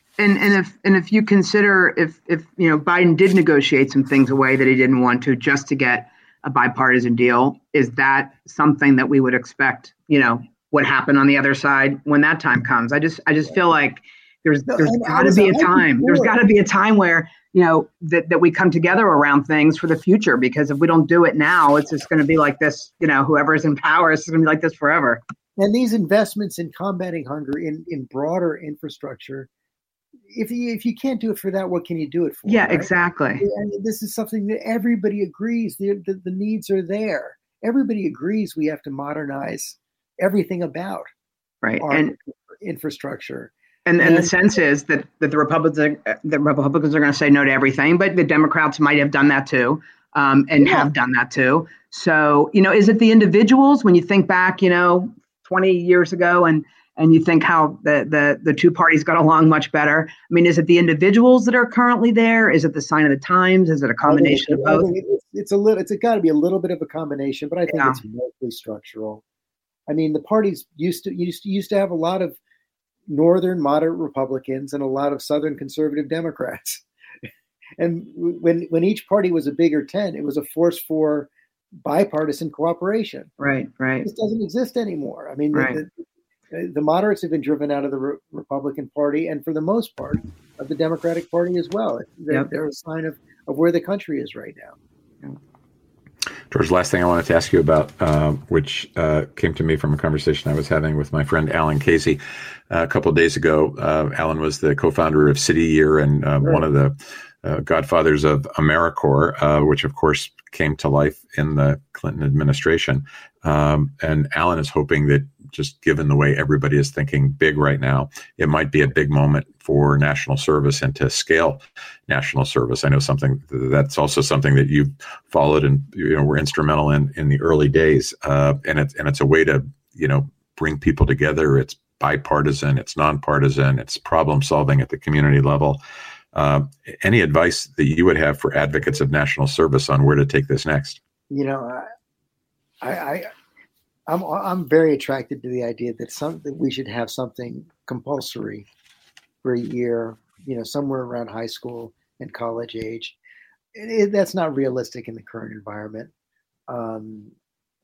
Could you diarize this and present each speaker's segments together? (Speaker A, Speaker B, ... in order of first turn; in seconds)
Speaker A: 0.2-25.2, 32.5-33.4, 41.6-42.1, 43.9-64.9, 67.7-68.0, 83.4-84.1, 85.5-85.8
Speaker B: 14.7-16.3, 25.6-29.5, 30.3-32.9, 33.4-41.1, 41.8-44.3, 50.6-50.9, 64.1-69.2, 69.9-72.3, 73.1-76.8, 77.8-81.3, 81.8-83.3, 84.0-86.0, 86.5-94.8, 141.3-141.9, 142.8-143.3, 144.1-148.7, 149.4-153.2, 153.7-156.1, 156.7-157.3
Speaker C: 96.5-102.2, 102.7-135.8, 136.3-141.0